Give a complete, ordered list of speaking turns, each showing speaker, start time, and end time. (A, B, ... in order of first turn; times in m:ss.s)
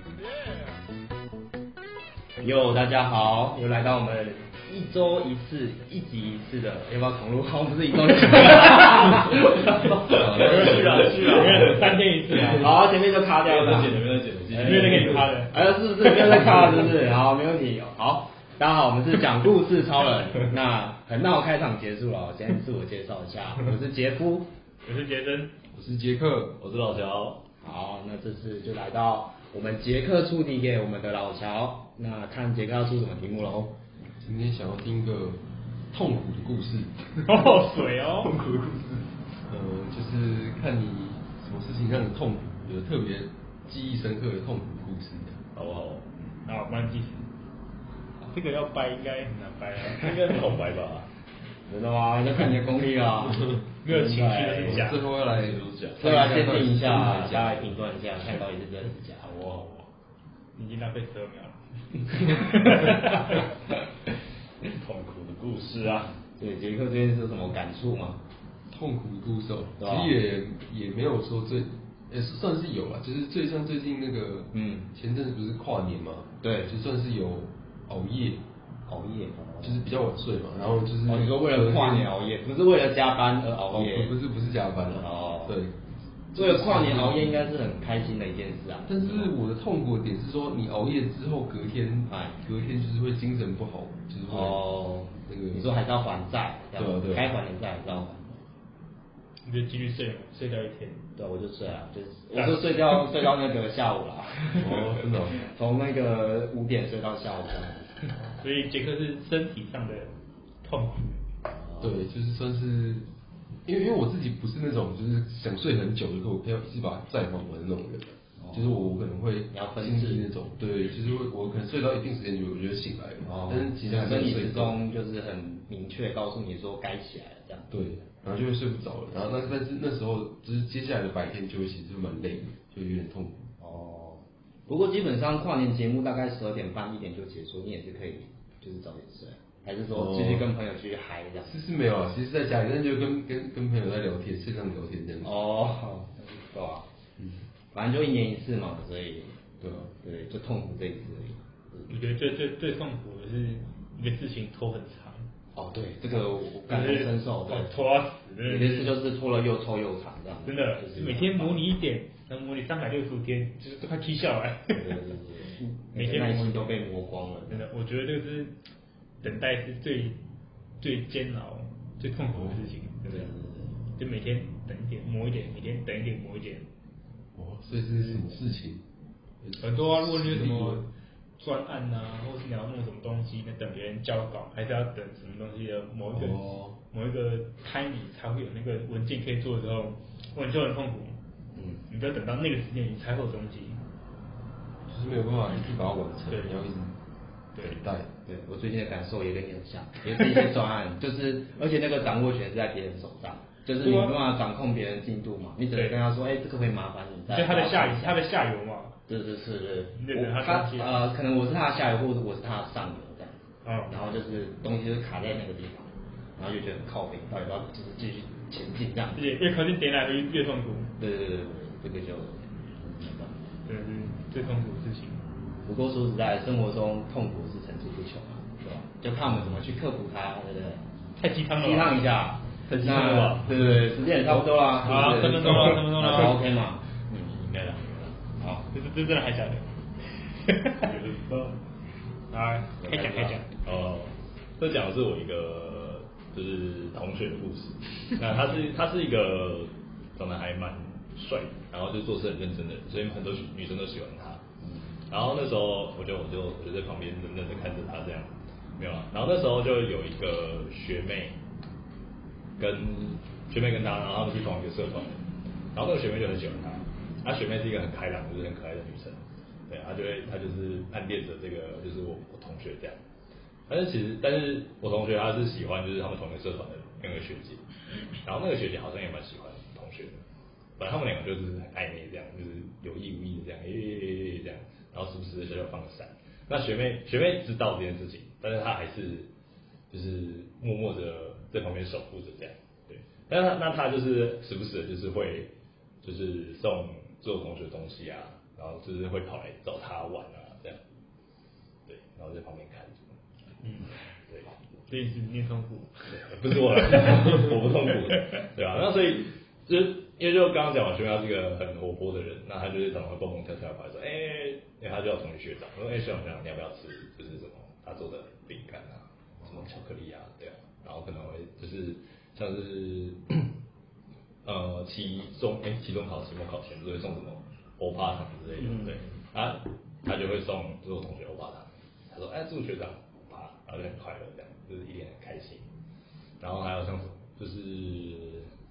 0:02.4-0:11.6 A
0:09.4-0:12.6 B
0:10.3-0:12.7 C
0:12.5-0:24.5 A
0:13.4-0:15.4 B
0:14.5-0:15.6 C
0:24.8-0:25.5 C
0:25.7-0:26.6 D
0:26.6-0:27.4 B
0:27.6-0:33.7 A
0:34.2-0:36.9 D
0:37.3-0:38.3 C
0:38.2-0:45.4 D
0:45.6-0:46.1 B
0:46.5-0:47.3 C
0:48.2-0:50.6 C
0:49.8-0:51.1 B
0:51.7-0:54.9 A
0:53.8-0:55.0 C
0:54.6-0:57.8 D
0:55.2-0:56.1 B
0:56.0-0:59.6 A
0:59.4-0:59.9 B
1:00.6-1:03.4 C
1:02.7-1:03.4 B
1:04.6-1:06.2 B
1:06.4-1:08.2 A
1:08.7-1:18.4 D
1:09.8-1:10.2 A
1:14.5-1:14.9 A
1:16.4-1:16.7 A
1:18.9-1:19.8 A
1:19.6-1:22.1 D
1:21.1-1:24.2 A
1:23.7-1:25.8 D
1:24.9-1:25.6 A
1:26.3-1:27.4 D
1:26.3-1:29.3 A
1:28.9-1:34.6 D
1:32.1-1:32.4 A
1:34.3-1:38.4 A
1:35.3-1:35.7 D
1:36.8-1:37.3 D
1:39.4-1:41.0 C
1:41.2-1:48.0 A
1:42.4-1:43.0 C
1:44.6-1:45.4 D
1:48.4-1:51.2 C
1:51.5-1:52.0 A
1:51.8-1:53.1 D
1:53.7-2:04.8 D
1:58.4-1:58.8 A
1:59.5-2:00.3 A
2:03.3-2:07.7 A
2:07.7-2:13.5 D
2:13.6-2:21.5 A
2:19.9-2:20.5 D
2:21.4-2:25.3 D
2:25.2-2:26.9 A
2:27.7-2:29.4 A
2:29.6-2:29.9 D
2:30.0-2:32.0 A
2:31.9-2:35.3 C
2:35.6-2:37.7 A
2:36.7-2:38.9 C
2:38.4-2:41.7 A
2:40.4-2:45.0 C
2:44.7-2:47.7 A
2:45.9-2:46.8 C
2:47.5-2:48.5 C
2:49.2-2:50.2 C
2:50.8-2:53.3 C
2:53.1-2:53.8 A
2:54.0-2:56.7 C
2:57.4-2:58.8 D
2:57.9-2:58.2 C
2:59.4-3:00.8 D
2:59.6-3:11.2 C
3:06.1-3:06.8 D
3:11.6-3:11.8 A
3:11.9-3:13.8 C
3:14.9-3:17.0 D
3:16.3-3:16.7 C
3:17.6-3:18.1 D
3:18.2-3:28.2 A
3:23.8-3:24.2 C
3:27.3-3:29.0 C
3:29.1-3:33.4 A
3:30.0-3:31.0 C
3:33.6-3:34.0 C
3:33.9-3:39.2 A
3:39.2-3:40.9 C
3:41.0-3:43.4 A
3:43.7-3:45.2 C
3:45.6-3:50.8 A
3:51.2-3:52.0 C
3:51.6-3:57.4 A
3:52.7-3:53.5 B
3:52.8-3:53.6 C
3:54.8-3:56.4 C
3:55.5-3:55.8 B
3:57.2-3:58.2 B
3:58.4-3:58.7 A
3:58.7-3:59.7 C
4:00.2-4:00.9 C
4:00.8-4:01.6 B
4:02.3-4:03.5 C
4:02.8-4:03.4 A
4:03.6-4:14.4 B
4:15.1-4:21.4 B
4:22.6-4:25.2 B
4:25.7-4:33.0 B
4:33.7-4:37.6 B
4:38.2-4:40.2 B
4:40.8-4:49.3 B
4:49.9-5:00.8 B
5:01.9-5:03.2 B
5:03.6-5:03.9 C
5:04.3-5:04.5 B
5:04.9-5:06.1 C
5:06.1-5:23.5 B
5:06.7-5:07.0 C
5:24.4-5:35.7 B
5:36.4-5:38.5 B